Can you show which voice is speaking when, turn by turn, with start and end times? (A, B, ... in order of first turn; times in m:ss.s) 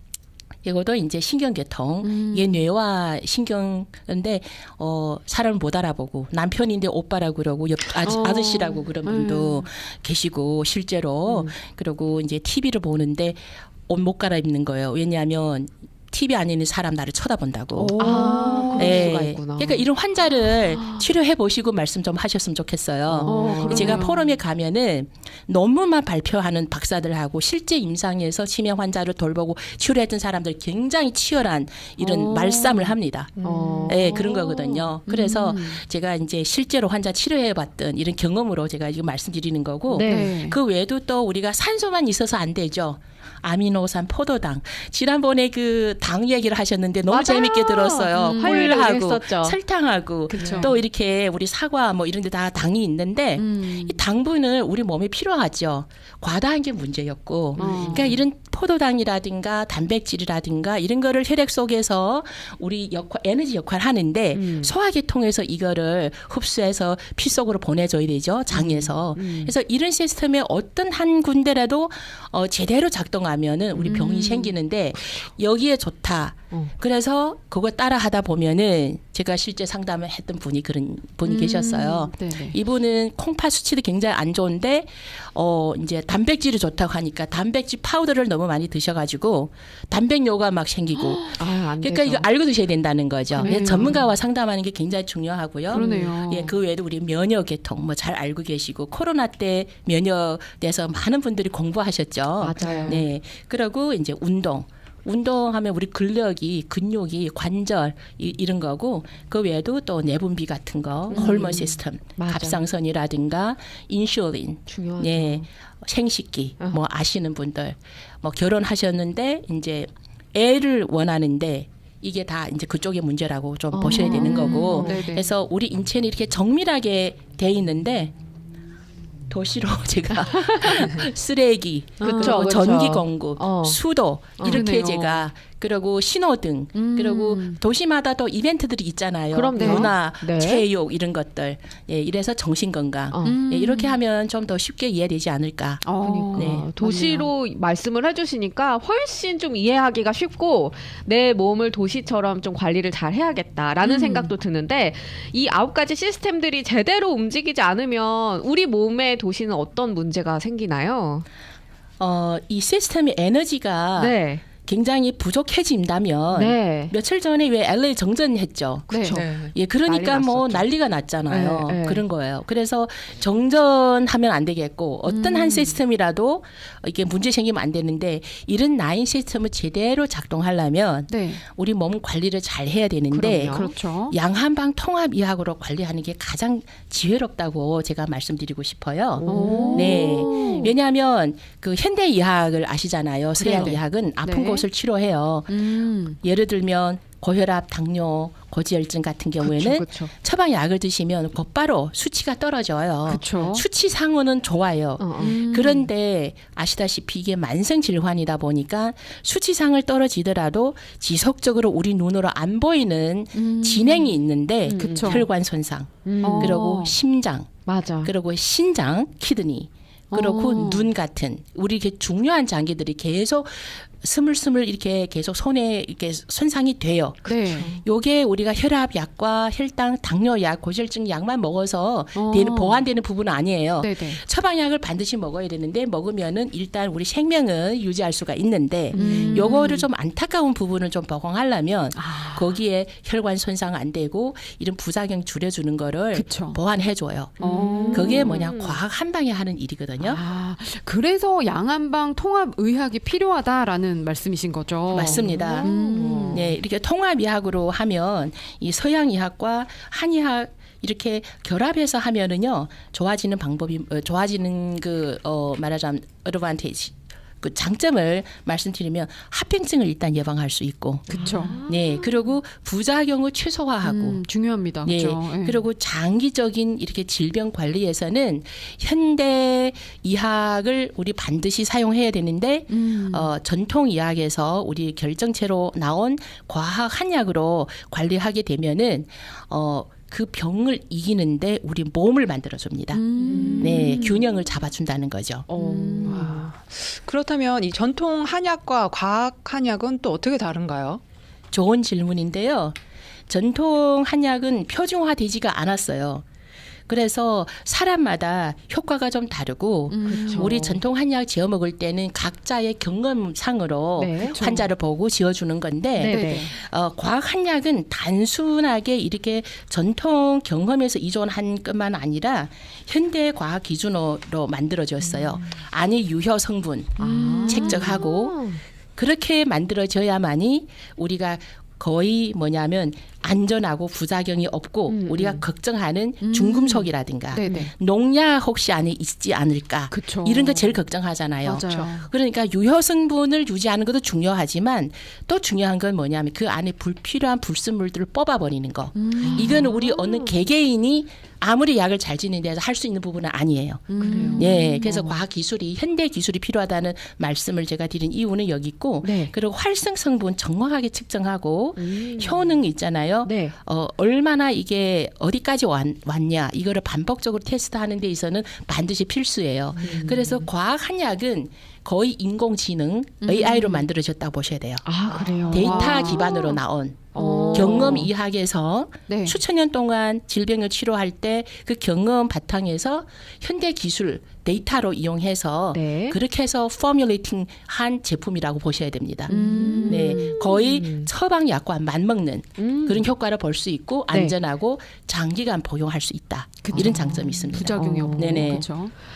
0:00.6-0:33.3 A
0:02.0-0:02.6 B
0:08.0-0:09.7 B
0:17.8-0:19.1 B
0:18.0-0:19.9 C
0:23.1-0:24.0 C
0:23.2-0:24.4 B
0:32.0-0:35.8 B
0:33.4-0:34.3 C
0:33.9-2:08.1 A
0:39.9-0:40.3 C
0:40.0-0:40.6 B
0:47.1-0:49.6 C
0:48.1-0:48.8 B
0:50.3-0:50.8 B
0:50.4-0:50.6 C
0:53.4-0:54.0 B
0:57.6-0:58.1 C
0:57.6-0:58.2 B
1:04.3-1:04.7 C
1:08.5-1:09.5 C
1:13.8-1:14.6 B
1:21.2-1:22.6 B
1:31.0-1:31.4 B
1:31.4-1:32.3 C
1:33.4-1:34.0 C
1:33.4-1:34.0 B
1:35.7-1:36.5 B
1:35.7-1:36.1 C
1:42.4-1:43.1 C
1:42.6-1:43.0 D
1:51.1-1:52.6 C
1:54.7-1:55.4 C
2:03.7-2:05.0 C
2:03.9-2:05.3 B
2:09.3-2:26.7 A
2:12.0-2:12.4 B
2:12.0-2:13.8 C
2:14.4-2:14.6 C
2:14.4-2:15.2 B
2:16.8-2:17.6 B
2:19.3-2:20.6 C
2:19.6-2:19.9 B
2:23.1-2:23.4 C
2:23.2-2:24.0 B
2:25.8-2:27.3 B
2:26.0-2:41.2 C
2:33.8-2:34.3 B
2:42.0-3:15.7 A
2:44.0-2:44.4 C
2:46.3-2:46.9 C
2:48.9-2:49.2 B
2:49.1-2:49.5 D
2:49.8-2:50.7 C
2:51.2-2:52.0 C
2:55.0-2:55.8 B
3:01.1-3:01.4 B
3:03.1-3:04.2 B
3:03.4-3:03.7 C
3:09.2-3:10.7 C
3:09.2-3:10.7 B
3:13.4-3:14.6 B
3:15.5-3:16.2 B
3:16.2-3:37.5 A
3:19.6-3:20.1 C
3:23.1-3:23.6 B
3:25.0-3:25.4 C
3:25.2-3:25.9 B
3:33.3-3:34.2 B
3:34.6-3:35.2 C
3:34.8-3:35.3 B
3:36.1-3:36.6 C
3:36.2-3:36.9 B
3:37.7-3:38.1 C
3:38.0-4:10.2 A
3:40.1-3:40.9 B
3:47.2-3:47.7 B
3:52.1-3:52.9 B
3:53.8-3:54.2 B
3:58.9-3:59.6 C
3:58.9-3:59.8 B
4:01.9-4:02.6 B
4:06.1-4:06.6 B
4:07.4-4:08.4 B
4:07.4-4:08.8 C
4:10.0-4:16.6 B
4:14.9-4:15.7 A
4:15.1-4:16.5 C
4:16.3-4:34.3 A
4:31.1-4:31.6 B
4:31.1-4:32.3 C
4:33.8-4:35.6 B
4:34.8-4:53.0 A
4:42.7-4:43.3 B
4:52.9-4:54.0 B
4:53.2-4:53.9 C
4:53.3-4:53.6 D
4:53.6-4:55.5 A
4:55.5-5:01.0 D
4:55.5-4:56.3 C
4:55.7-4:56.4 B
5:01.5-5:02.8 A
5:03.3-5:06.2 A
5:06.9-5:28.4 A
5:09.9-5:10.8 B
5:10.0-5:10.8 C
5:14.0-5:14.4 C
5:14.2-5:14.7 B
5:16.0-5:16.5 B
5:16.0-5:16.5 C
5:27.0-5:28.0 B
5:27.0-5:28.6 C
5:29.0-6:14.9 A
5:34.9-5:35.4 C
5:36.2-5:37.7 B
5:37.4-5:37.7 C
5:39.9-5:40.8 B
5:41.4-5:42.1 B
5:48.9-5:49.7 B
5:49.2-5:50.4 C
5:53.9-5:54.8 B
5:54.0-5:55.2 C
5:59.0-5:59.3 C
6:01.8-6:02.6 C
6:03.2-6:03.6 C
6:09.8-6:10.5 C
6:13.2-6:13.8 B
6:14.8-6:16.5 C
6:15.2-6:16.4 B
6:15.5-6:38.7 A
6:17.2-6:18.1 C
6:17.2-6:18.1 B
6:19.1-6:19.4 B
6:25.7-6:26.2 C
6:29.3-6:30.2 B
6:29.3-6:31.1 C
6:32.6-6:33.1 C
6:34.1-6:34.4 C
6:36.6-6:38.9 B
6:36.7-6:37.1 C
6:37.6-6:38.6 C